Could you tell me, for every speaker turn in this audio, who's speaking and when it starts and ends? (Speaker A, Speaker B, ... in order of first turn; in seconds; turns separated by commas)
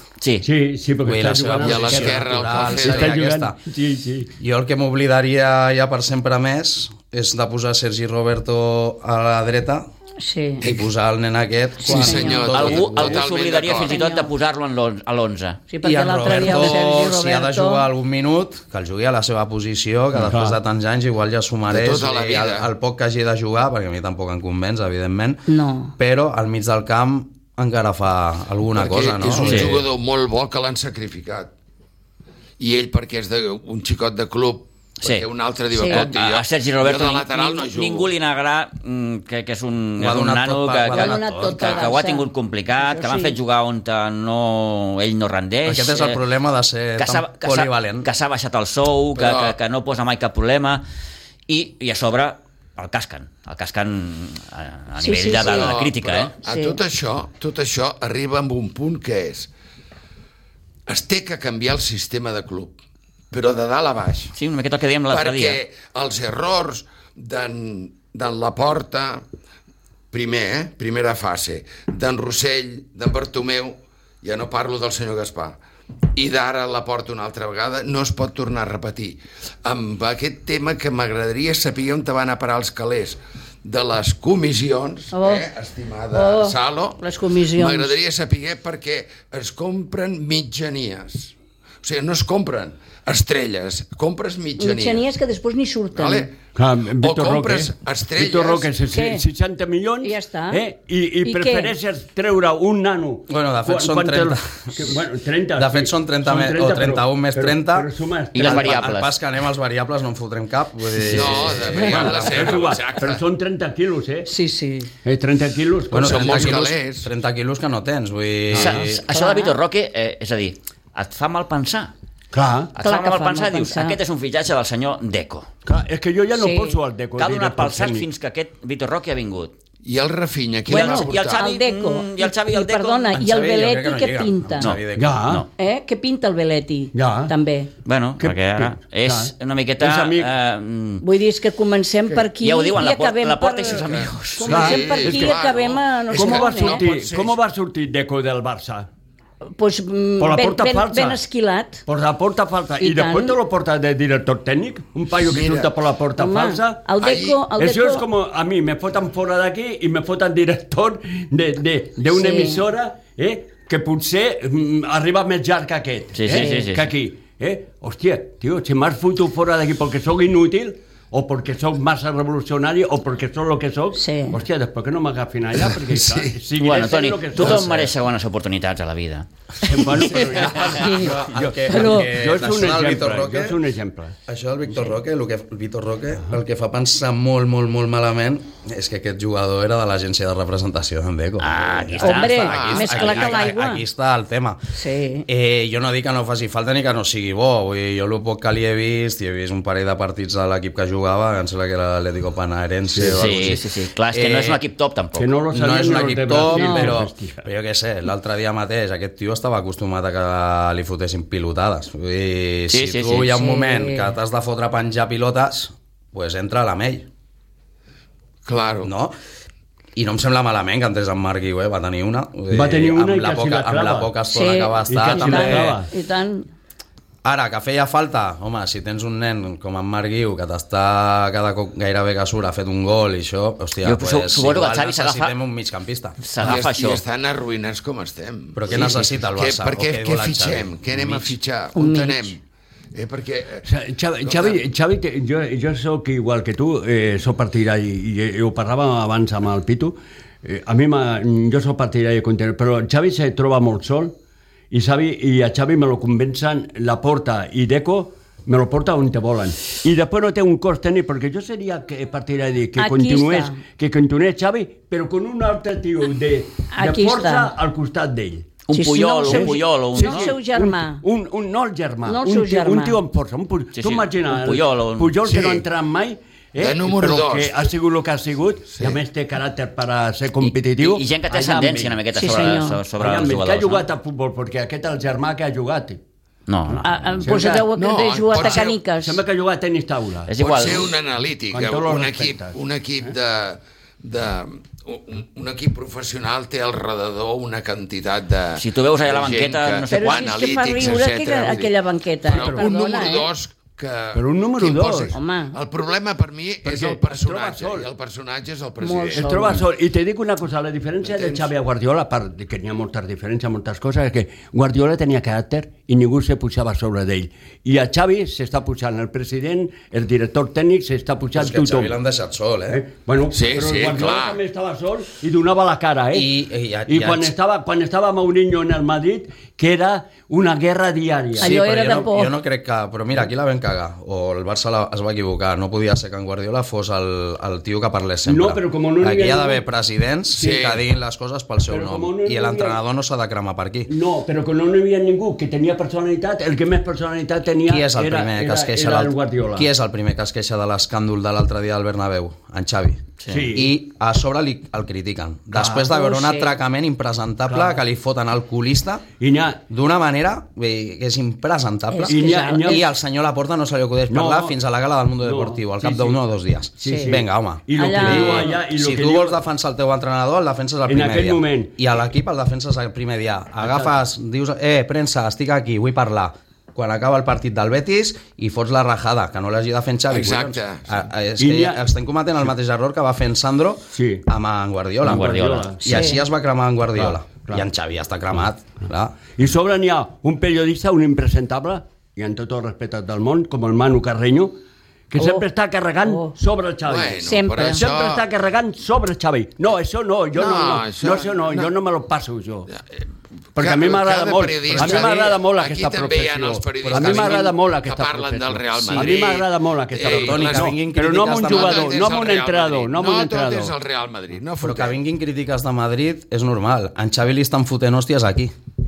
Speaker A: 0.2-0.5, Speaker B: 0.4-4.3, Speaker C: 1.0-3.6, Speaker D: 1.6-3.2, Speaker C: 4.4-9.9, Speaker E: 10.2-10.6, Speaker D: 10.6-10.9, Speaker C: 10.6-13.2, Speaker E: 11.8-12.5, Speaker D: 11.8-14.0, Speaker A: 12.4-15.6, Speaker E: 13.8-14.3, Speaker E: 15.7-17.9, Speaker C: 15.8-25.4, Speaker A: 16.2-16.7, Speaker B: 20.3-20.6, Speaker D: 21.7-22.7, Speaker E: 25.5-25.9, Speaker C: 26.0-29.9, Speaker D: 28.8-31.5, Speaker A: 29.4-29.8, Speaker D: 32.6-38.1, Speaker E: 35.7-36.1, Speaker A: 35.9-46.2, Speaker C: 40.0-41.8, Speaker E: 40.9-42.3, Speaker E: 42.8-43.4, Speaker C: 45.6-48.1, Speaker A: 47.0-50.8, Speaker D: 49.1-49.6, Speaker A: 51.5-56.3, Speaker E: 55.0-55.8, Speaker D: 55.3-59.5, Speaker E: 56.4-56.8, Speaker D: 60.9-62.8, Speaker D: 63.3-64.3, Speaker A: 64.3-65.6, Speaker D: 65.1-69.2, Speaker D: 70.1-75.6, Speaker D: 76.2-95.1, Speaker E: 85.1-85.5, Speaker E: 86.1-88.0, Speaker E: 94.6-96.3, Speaker D: 96.0-96.4, Speaker B: 96.5-108.9, Speaker D: 97.0-98.7, Speaker E: 98.9-99.2, Speaker E: 100.0-100.6, Speaker E: 101.2-101.7, Speaker C: 103.3-105.0, Speaker C: 105.5-112.7, Speaker A: 108.3-109.2, Speaker A: 111.0-111.5, Speaker D: 111.1-113.2, Speaker B: 111.7-114.3, Speaker E: 114.3-114.9, Speaker B: 115.0-116.6, Speaker C: 115.9-119.0, Speaker D: 116.0-117.1, Speaker A: 118.5-121.9, Speaker E: 119.1-119.5, Speaker B: 122.3-122.7, Speaker A: 122.7-125.5, Speaker E: 122.8-124.0, Speaker B: 125.7-128.1, Speaker E: 126.3-126.8, Speaker A: 127.2-129.5, Speaker D: 129.8-131.5, Speaker A: 130.7-133.2, Speaker E: 130.7-134.8, Speaker C: 133.1-135.3, Speaker A: 134.6-135.5, Speaker B: 135.0-135.4, Speaker E: 135.6-137.7, Speaker B: 136.9-137.3, Speaker A: 137.8-141.0, Speaker B: 138.2-140.3, Speaker E: 141.0-146.9, Speaker A: 142.4-144.7, Speaker D: 143.7-147.4, Speaker B: 144.5-145.3, Speaker B: 146.2-148.9, Speaker E: 149.6-151.8, Speaker B: 150.2-151.2, Speaker B: 151.9-156.9, Speaker E: 152.8-153.4, Speaker D: 155.2-155.7, Speaker E: 156.2-158.1, Speaker D: 157.0-157.4, Speaker B: 157.6-177.9, Speaker E: 162.1-162.6, Speaker A: 166.2-166.9, Speaker E: 166.3-166.7, Speaker E: 173.9-174.4, Speaker D: 175.7-176.4, Speaker A: 176.6-179.3, Speaker B: 179.6-184.2, Speaker E: 179.8-182.1, Speaker C: 180.8-183.6, Speaker C: 184.3-194.6, Speaker A: 191.4-193.4, Speaker E: 192.0-193.8, Speaker D: 192.4-193.4, Speaker E: 194.7-195.3, Speaker C: 195.3-204.6, Speaker B: 202.9-203.5, Speaker A: 203.1-205.3, Speaker B: 205.2-207.5, Speaker C: 205.5-217.1, Speaker E: 206.5-206.9, Speaker A: 212.7-213.3, Speaker E: 213.3-214.1, Speaker D: 218.4-218.9, Speaker C: 218.8-219.2, Speaker C: 220.0-225.8, Speaker B: 222.5-224.1, Speaker E: 224.3-226.5, Speaker B: 224.9-225.9, Speaker C: 227.2-236.3, Speaker A: 233.8-235.3, Speaker A: 236.2-237.0, Speaker D: 236.4-242.4, Speaker C: 238.6-241.3, Speaker E: 241.8-242.4, Speaker D: 242.9-243.7, Speaker B: 243.7-254.2, Speaker D: 244.2-244.6, Speaker B: 254.7-268.5, Speaker E: 262.8-263.6, Speaker E: 266.7-267.5, Speaker A: 268.7-270.3, Speaker E: 268.7-271.0, Speaker B: 269.3-286.0, Speaker E: 272.1-273.0, Speaker A: 273.8-275.2, Speaker D: 275.3-275.6, Speaker D: 276.6-277.6, Speaker D: 278.7-279.0, Speaker A: 280.4-283.9, Speaker E: 282.1-282.8, Speaker A: 286.5-286.9, Speaker B: 286.7-287.7, Speaker E: 286.8-289.2, Speaker D: 287.7-288.8, Speaker B: 288.3-290.3, Speaker A: 290.3-290.9, Speaker D: 290.4-309.6, Speaker B: 291.5-292.6, Speaker A: 298.6-300.5, Speaker E: 299.9-303.3, Speaker B: 302.3-302.7, Speaker B: 304.1-305.1, Speaker E: 305.1-305.6, Speaker B: 306.6-307.9, Speaker E: 308.8-309.6, Speaker B: 309.1-321.9, Speaker D: 311.1-311.5, Speaker C: 321.3-322.8, Speaker B: 322.7-326.3, Speaker D: 323.3-324.4, Speaker C: 326.1-327.3, Speaker B: 326.9-331.9, Speaker C: 331.4-343.9, Speaker E: 331.4-332.3, Speaker B: 338.3-339.6, Speaker B: 340.4-340.7, Speaker D: 340.4-340.8, Speaker B: 341.7-342.8, Speaker B: 343.9-349.7, Speaker C: 347.6-359.1, Speaker A: 353.2-353.5, Speaker B: 353.3-353.7, Speaker B: 355.5-355.9, Speaker E: 355.9-356.5, Speaker B: 357.5-357.8, Speaker B: 359.2-359.6, Speaker C: 359.7-389.2, Speaker E: 361.9-362.9, Speaker B: 362.1-362.8, Speaker B: 364.1-364.6, Speaker B: 365.2-366.2, Speaker B: 366.8-369.4, Speaker E: 366.8-367.2, Speaker E: 367.8-368.6, Speaker B: 370.9-371.7, Speaker B: 373.6-373.9, Speaker D: 380.1-381.0, Speaker B: 381.4-381.8, Speaker B: 383.9-384.2, Speaker A: 385.0-385.7, Speaker B: 385.0-386.1, Speaker E: 385.9-386.2, Speaker B: 387.0-387.7, Speaker B: 389.3-394.6, Speaker B: 395.1-402.7, Speaker E: 395.2-395.5, Speaker E: 396.0-396.3, Speaker D: 396.9-398.3, Speaker E: 397.2-397.9, Speaker D: 400.3-401.7, Speaker D: 402.7-410.8, Speaker B: 403.6-413.7, Speaker C: 404.6-405.4, Speaker C: 406.9-407.5, Speaker C: 408.8-409.2, Speaker C: 410.0-412.1, Speaker D: 411.4-415.0, Speaker C: 414.6-418.5